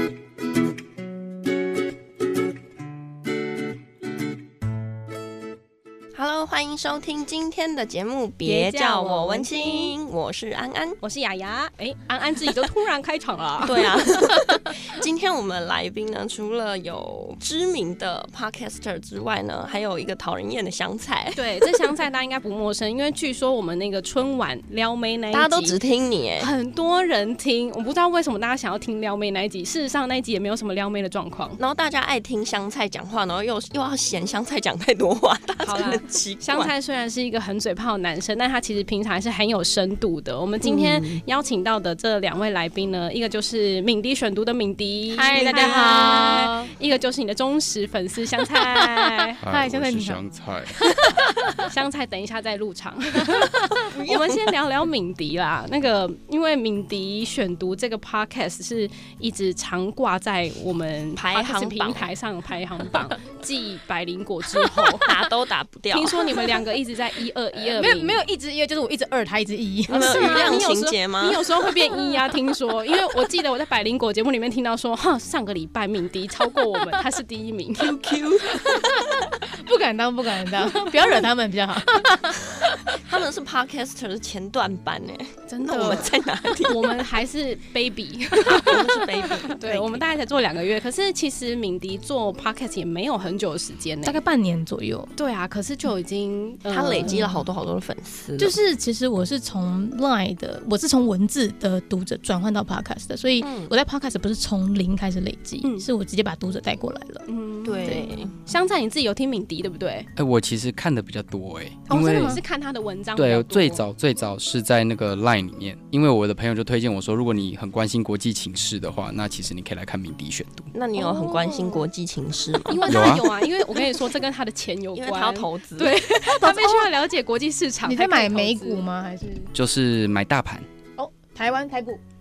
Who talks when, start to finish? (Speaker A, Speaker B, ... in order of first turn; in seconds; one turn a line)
Speaker A: 6.1-11.0
Speaker B: 8.4-10.0
Speaker B: 11.0-14.0
Speaker A: 13.6-21.9
Speaker B: 21.4-25.8
Speaker A: 25.3-26.5
Speaker B: 26.4-31.6
Speaker A: 31.6-36.7
Speaker B: 35.6-49.4
Speaker A: 40.6-41.2
Speaker C: 45.1-46.7
Speaker C: 48.7-50.2
Speaker D: 49.4-50.8
Speaker C: 50.8-51.5
Speaker B: 51.7-65.2
Speaker A: 53.8-54.5
Speaker A: 61.1-62.1
Speaker A: 65.0-66.3
Speaker B: 65.9-68.2
Speaker C: 67.7-70.6
Speaker A: 69.9-71.5
Speaker B: 69.9-78.0
Speaker A: 77.8-79.0
Speaker C: 79.5-82.5
Speaker A: 83.0-87.2
Speaker B: 85.5-86.1
Speaker C: 85.8-86.0
Speaker B: 86.6-94.2
Speaker A: 88.4-90.0
Speaker C: 94.0-95.1
Speaker B: 95.2-97.3
Speaker A: 96.7-98.6
Speaker C: 97.0-97.4
Speaker C: 98.4-107.3
Speaker A: 103.4-103.7
Speaker B: 105.6-105.9
Speaker B: 107.3-110.1
Speaker A: 107.7-108.3
Speaker C: 107.8-108.1
Speaker D: 110.2-112.4
Speaker C: 111.9-112.4
Speaker B: 112.0-113.9
Speaker D: 113.2-120.7
Speaker A: 120.7-122.9
Speaker C: 121.0-121.8
Speaker B: 122.7-128.9
Speaker D: 122.9-123.2
Speaker A: 125.0-126.0
Speaker C: 126.2-127.0
Speaker C: 127.9-129.5
Speaker D: 129.6-130.7
Speaker C: 131.0-132.0